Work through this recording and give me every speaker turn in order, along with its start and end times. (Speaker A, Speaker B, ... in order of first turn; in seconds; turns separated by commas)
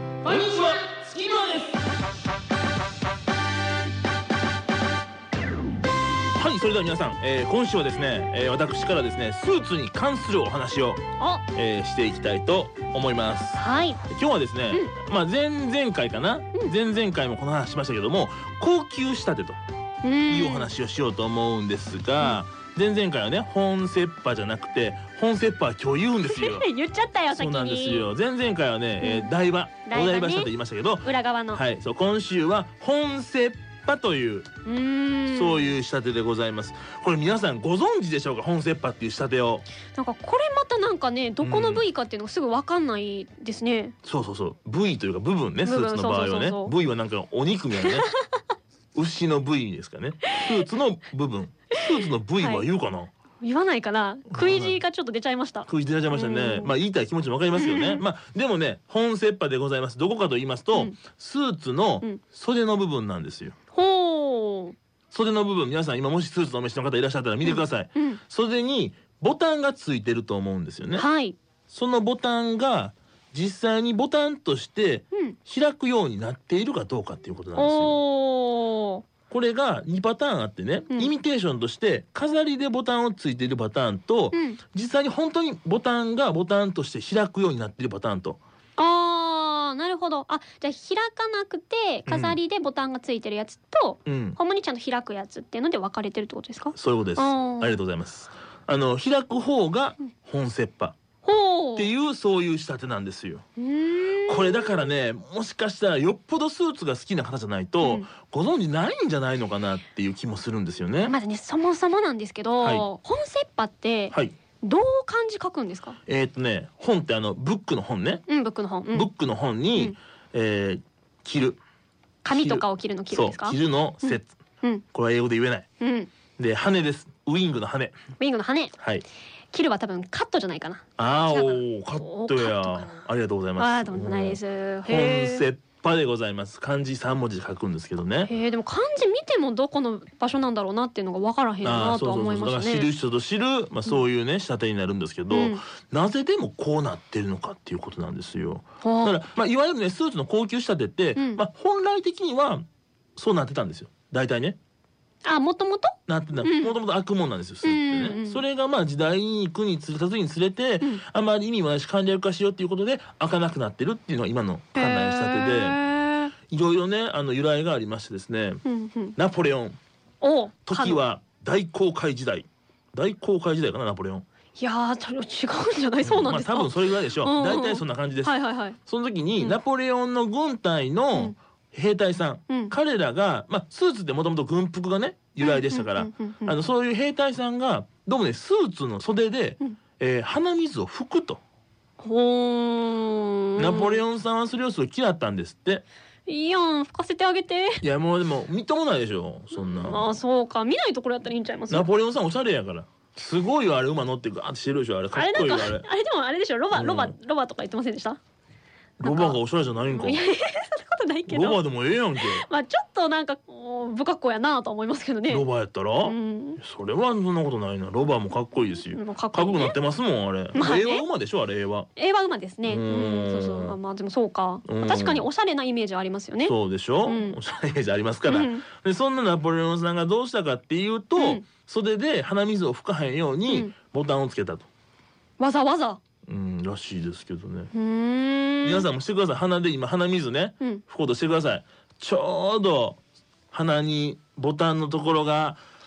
Speaker A: 0.2-1.6, Speaker B: 0.2-1.8, Speaker B: 6.3-11.0, Speaker A: 11.2-11.4, Speaker B: 11.5-19.6, Speaker A: 13.6-14.0, Speaker A: 20.0-20.7, Speaker B: 20.3-26.7, Speaker A: 26.2-28.1, Speaker B: 27.3-34.5, Speaker A: 29.0-29.3, Speaker A: 29.9-30.5, Speaker A: 31.0-31.6, Speaker A: 34.6-35.7, Speaker B: 35.3-39.6, Speaker A: 39.9-44.0, Speaker B: 41.4-41.8, Speaker B: 44.0-48.1, Speaker A: 45.6-46.7, Speaker B: 48.9-53.1, Speaker A: 51.9-52.6, Speaker A: 53.4-56.7, Speaker B: 54.3-54.8, Speaker B: 55.7-63.5, Speaker A: 57.5-58.0, Speaker A: 63.7-64.8, Speaker B: 65.1-71.0, Speaker A: 67.4-68.2, Speaker A: 71.0-71.4, Speaker B: 71.7-78.0, Speaker A: 77.5-79.0, Speaker B: 79.3-88.4, Speaker A: 84.3-84.6, Speaker A: 88.8-97.8, Speaker B: 92.1-92.4, Speaker B: 94.0-94.4, Speaker B: 96.7-101.0, Speaker A: 101.2-101.9, Speaker B: 101.8-103.4, Speaker A: 103.6-104.9, Speaker B: 104.3-111.1, Speaker A: 107.8-108.1, Speaker A: 111.0-116.0, Speaker B: 112.6-112.8, Speaker B: 114.1-114.3, Speaker B: 116.1-118.2, Speaker A: 118.3-119.1, Speaker B: 118.9-121.6, Speaker A: 122.2-124.8, Speaker B: 122.3-124.3, Speaker B: 124.9-125.7, Speaker A: 125.8-126.1, Speaker B: 126.4-128.0, Speaker A: 128.2-128.7, Speaker B: 128.8-129.0, Speaker A: 129.5-133.0, Speaker B: 131.0-138.3, Speaker A: 133.6-135.5, Speaker A: 138.3-142.9, Speaker B: 141.6-152.6, Speaker A: 145.3-145.6, Speaker A: 148.8-149.2, Speaker A: 151.2-151.4, Speaker B: 153.2-154.6, Speaker A: 155.2-156.8, Speaker B: 156.1-165.8, Speaker A: 157.6-158.4, Speaker A: 164.7-166.3, Speaker B: 166.5-168.6, Speaker A: 168.6-169.1, Speaker B: 169.2-169.8, Speaker A: 170.2-171.0, Speaker B: 170.7-174.2, Speaker A: 174.6-178.8, Speaker B: 176.0-191.4, Speaker A: 185.4-186.5, Speaker A: 192.0-194.0, Speaker B: 193.6-195.8, Speaker A: 196.3-197.8, Speaker B: 197.8-200.1, Speaker A: 199.5-201.9, Speaker B: 201.7-205.8, Speaker A: 205.1-208.2, Speaker B: 206.7-207.1, Speaker B: 209.0-210.2, Speaker A: 209.0-211.6, Speaker B: 211.3-212.4, Speaker A: 212.2-215.4, Speaker B: 215.3-221.9, Speaker A: 216.0-216.6, Speaker A: 218.9-219.7, Speaker A: 220.5-221.0, Speaker A: 222.0-227.4, Speaker B: 222.7-223.8, Speaker B: 224.7-225.3, Speaker B: 226.4-234.7, Speaker A: 228.2-228.6, Speaker A: 231.2-231.4, Speaker A: 233.5-233.7, Speaker A: 235.4-236.0, Speaker B: 236.3-237.7, Speaker A: 237.7-238.9, Speaker B: 238.6-243.0, Speaker B: 243.5-245.6